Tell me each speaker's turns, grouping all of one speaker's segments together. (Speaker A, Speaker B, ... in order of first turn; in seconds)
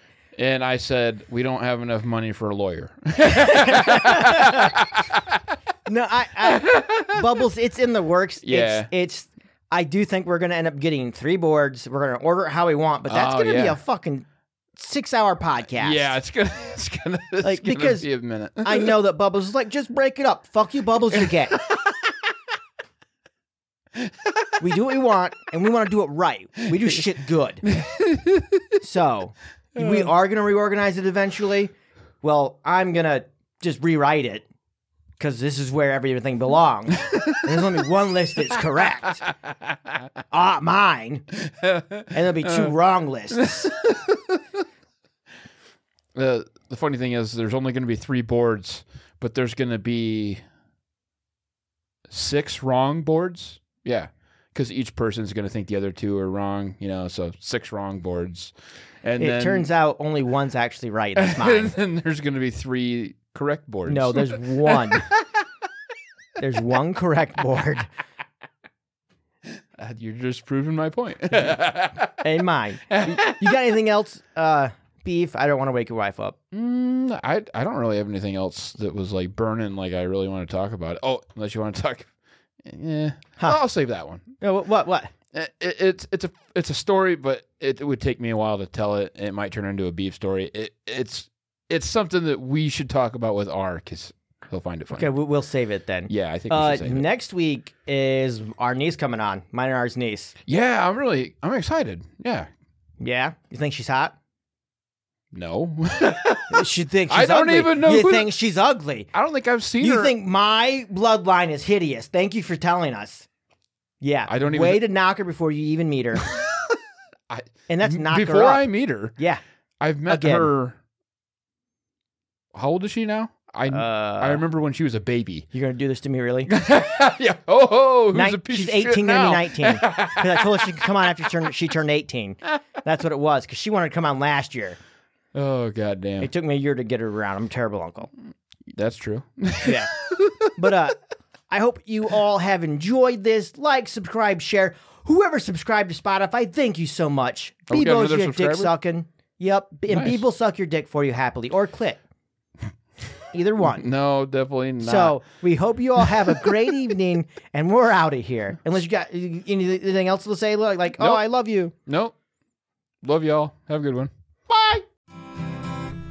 Speaker A: 0.3-5.4, 6.4-7.2, 8.4-8.9, 13.1-13.8, 15.8-18.9, 21.1-22.1, 23.9-24.5, 27.6-28.8, 29.8-30.1, 37.1-37.4, 39.3-40.0, 41.4-42.7, 43.3-44.6, 46.1-50.4, 52.1-58.5, 59.0-59.7, 61.1-65.2, 69.7-72.2, 72.9-73.6, 76.5-82.1, 82.6-84.3, 85.3-95.1, 96.1-97.0, 100.5-102.5, 105.3-108.3, 109.1-110.1, 114.3-114.8, 116.2-116.8, 117.3-119.1, 119.8-120.8, 122.5-125.5, 126.5-131.3, 135.3-136.3, 138.7-140.7, 147.7-148.7, 149.9-150.2, 153.6-155.2, 156.0-156.5, 161.8-162.1, 163.0-164.1
Speaker B: 3.3-4.8, 5.9-16.1, 17.4-18.1, 18.6-21.6, 24.6-27.6, 28.8-34.5, 35.2-39.2, 40.3-41.2, 42.1-43.7, 59.2-61.7, 63.9-65.1, 66.4-67.9, 72.2-76.3, 84.4-85.1, 94.9-100.3, 103.0-104.1, 106.5-109.1, 109.8-113.3, 114.0-116.3, 117.7-118.6, 120.1-120.5, 123.7-124.4, 125.5-126.5, 128.1-134.8, 136.2-138.1, 139.6-139.9, 140.5-141.0, 141.5-152.0, 153.3-153.8, 154.8-161.7, 164.5-164.8